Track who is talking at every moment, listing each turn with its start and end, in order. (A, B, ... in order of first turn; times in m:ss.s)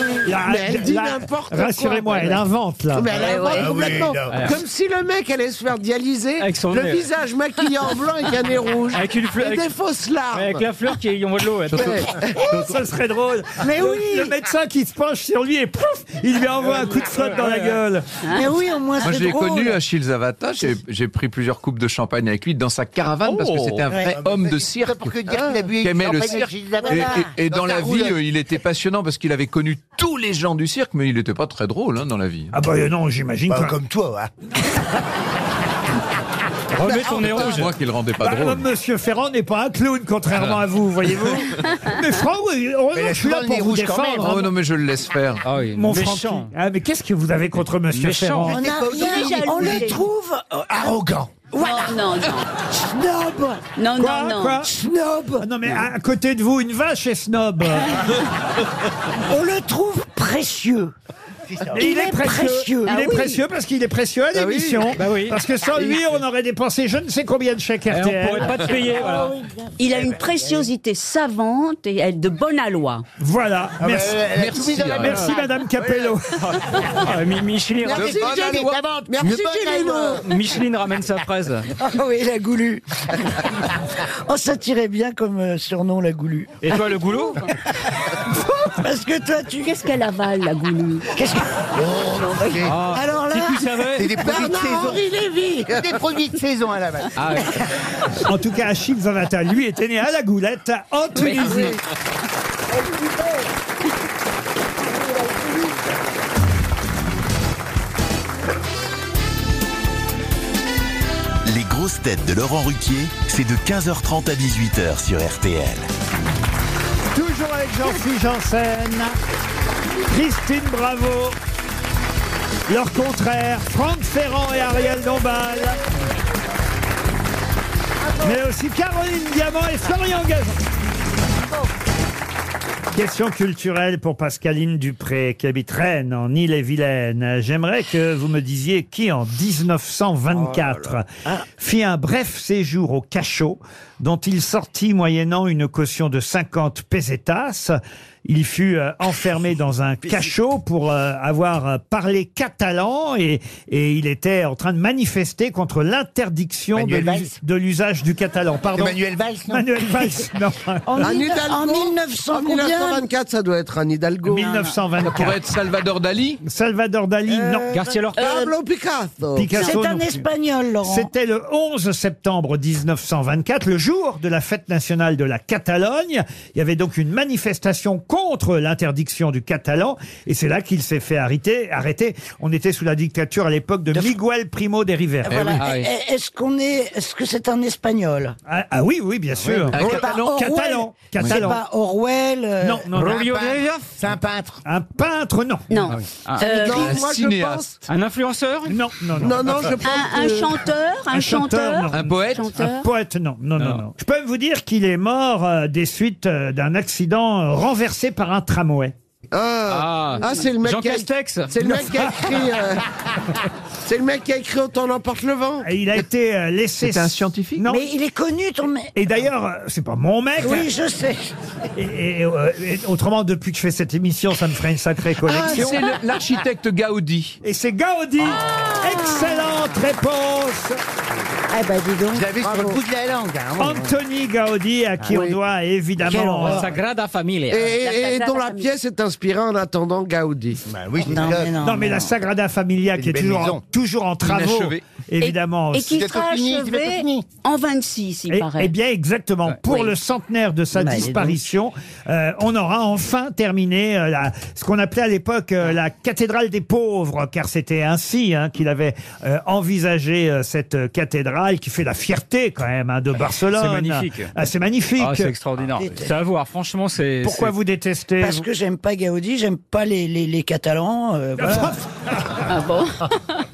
0:00.2-0:03.2 A
0:00.3-0:10.6 B
0:03.2-0:04.0 C
0:03.5-0:04.5 D
0:04.3-0:04.6 E
0:06.4-0:07.1 E
0:08.9-0:09.7 E
0:10.3-0:12.2 E
0:11.7-0:12.6 B
0:12.4-0:18.1 A
0:13.6-0:14.4 F
0:16.6-0:17.8 E
0:18.3-0:19.8 F
0:19.0-0:25.2 G
0:23.9-0:24.1 F
0:24.0-0:28.2 D
0:25.8-0:32.5 G
0:27.6-0:28.1 B
0:32.5-0:33.7 A
0:33.5-0:34.3 D
0:36.7-0:37.7 E
0:37.1-0:38.6 G
0:38.2-0:44.5 A
0:42.9-0:44.5 D
0:44.2-0:45.5 G
0:45.4-0:46.5 E
0:45.7-0:48.6 A
0:47.9-0:48.5 E
0:48.4-0:50.0 D
0:48.4-0:51.0 F
0:48.7-0:50.0 C
0:50.7-0:51.3 D
0:51.5-0:52.0 F
0:51.6-0:52.5 C
0:52.7-0:53.6 F
0:53.8-0:54.6 C
0:54.0-0:54.7 A
0:54.6-0:55.5 F
0:55.4-0:58.2 A
0:59.2-1:00.9 F
1:01.5-1:01.9 D
1:01.7-1:08.7 A
1:01.8-1:03.4 F
1:02.9-1:03.2 C
1:04.3-1:05.0 B
1:05.0-1:05.4 E
1:05.8-1:06.0 B
1:07.9-1:09.3 E
1:08.7-1:09.7 F
1:09.8-1:13.0 C
1:10.0-1:10.6 D
1:13.2-1:14.3 A
1:13.8-1:16.2 D
1:14.3-1:15.2 G
1:14.9-1:16.4 A
1:15.0-1:15.3 E
1:16.4-1:18.2 E
1:17.8-1:20.2 D
1:17.9-1:20.2 B
1:17.9-1:18.8 G
1:20.2-1:21.7 E
1:21.8-1:26.7 F
1:26.6-1:27.4 E
1:28.2-1:29.7 F
1:29.6-1:31.1 C
1:31.1-1:31.5 F
1:31.7-1:32.8 D
1:32.6-1:34.2 E
1:32.9-1:33.6 F
1:33.9-1:35.0 D
1:34.1-1:36.0 B
1:35.6-1:37.5 D
1:37.2-1:37.6 E
1:38.2-1:41.7 A
1:41.2-1:41.8 C
1:51.4-1:55.9 H
1:57.1-1:59.2 A
2:00.1-2:01.4 A
2:02.7-2:05.8 A
2:08.2-2:10.6 A
2:12.9-2:21.0 A
2:21.6-2:40.8 A
2:36.7-2:37.4 D
2:38.7-2:39.7 D
2:40.8-2:43.0 F
2:41.0-2:44.7 B
2:44.2-2:45.4 A
2:45.0-2:46.4 G
2:46.4-2:47.7 A
2:47.3-2:48.3 F
2:47.7-2:48.2 E
2:48.1-2:49.8 B
2:49.4-2:50.3 A
2:49.5-2:51.1 F
2:50.8-3:05.6 A
3:05.2-3:08.4 F
3:05.3-3:05.6 G
3:05.6-3:05.9 E
3:08.4-3:11.6 A
3:09.4-3:09.9 D
3:09.7-3:10.3 G
3:09.7-3:12.9 F
3:11.1-3:11.4 G
3:12.6-3:13.2 A
3:12.9-3:13.9 E
3:13.0-3:14.6 D
3:14.6-3:15.7 A
3:15.7-3:17.0 C
3:16.4-3:17.8 B
3:16.7-3:17.6 G
3:17.9-3:18.7 E
3:18.7-3:19.7 A
3:19.2-3:20.6 B
3:19.8-3:22.9 C
3:21.1-3:28.9 A
3:21.9-3:22.7 G
3:23.6-3:23.8 E
3:29.3-3:32.8 B
3:29.7-3:31.6 E
3:33.8-3:35.7 B
3:35.6-3:37.8 A
3:36.8-3:37.6 G
3:37.6-3:38.9 F
3:38.9-3:40.7 A
3:40.4-3:41.3 F
3:41.8-3:45.8 A
3:45.2-3:47.4 G
3:47.4-3:50.8 A
3:48.8-3:49.5 C
3:51.5-3:52.8 F
3:52.1-3:53.9 D
3:53.6-3:56.7 A
3:55.1-3:55.3 B
3:56.0-3:56.7 F
3:56.4-3:57.7 E
3:57.5-4:00.6 B
3:57.8-3:58.7 C
4:00.6-4:01.6 D
4:01.0-4:02.1 F
4:01.6-4:06.0 A
4:03.0-4:03.6 D
4:04.2-4:04.8 G
4:05.2-4:08.7 C
4:05.8-4:07.2 D
4:08.3-4:25.3 A
4:09.6-4:09.9 C
4:10.7-4:11.4 F
4:23.5-4:24.3 E
4:25.0-4:27.5 E
4:25.8-4:26.1 F
4:27.2-4:28.5 A
4:28.2-4:31.8 F
4:31.4-4:31.8 A
4:32.4-4:33.4 C